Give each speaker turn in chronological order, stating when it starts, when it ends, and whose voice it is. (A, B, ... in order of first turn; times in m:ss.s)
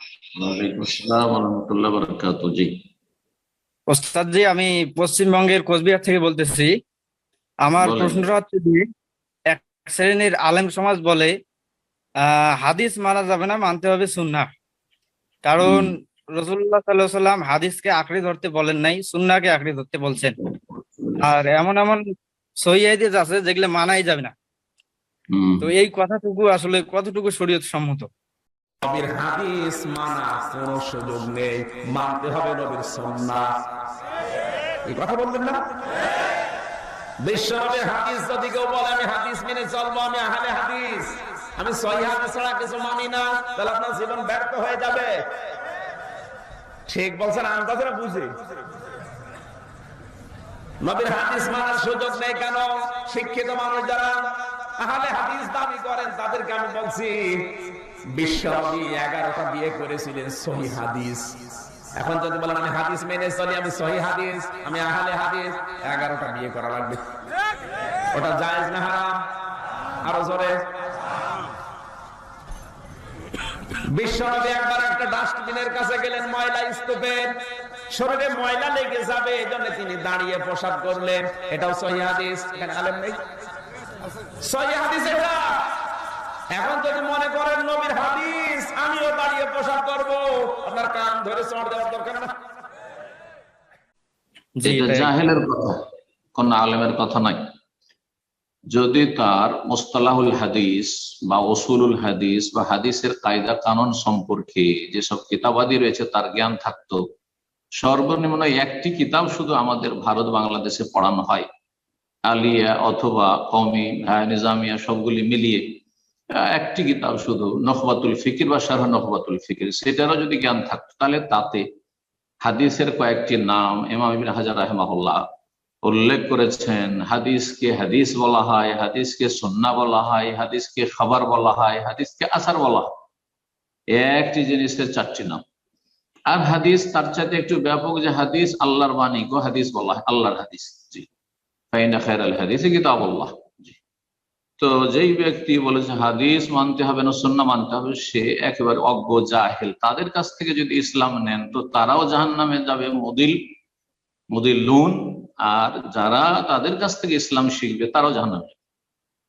0:00.4-0:02.8 A
0:03.9-0:06.7 B
0:07.6-0:08.8 B
0:07.8-0:08.2 A
0:09.5-0:11.3 B
0:12.2-0:14.5 B
0:15.4-0:20.4 B
0:15.6-0:15.9 A
0:21.2-0:22.0 B
0:22.6-0:24.3 B
0:25.3-0:25.7 A
0:25.6-0:28.1 B
0:28.8-0:33.5 C
0:34.9-0:35.7 C
0:37.2-0:45.1 C
0:46.9-0:48.3 C
0:50.8-0:54.2 C
0:54.8-0:57.5 C
0:58.2-1:01.4 C
1:02.0-1:07.0 C
1:08.1-1:09.2 C
1:10.0-1:10.5 C
1:13.9-1:17.3 C
1:17.9-1:23.2 C
1:24.4-1:25.6 C
1:26.5-1:32.3 C
1:34.6-1:35.1 B
1:34.6-1:35.8 A
1:36.4-1:37.4 A
1:38.7-1:47.0 A
1:47.8-1:51.5 A
1:52.3-1:55.6 A
1:56.4-2:01.6 A
2:02.4-2:05.3 A
2:05.8-2:12.9 A
2:13.9-2:15.4 A
2:16.3-2:21.1 A
2:21.7-2:23.8 A
2:24.6-2:33.4 A
2:34.3-2:38.6 A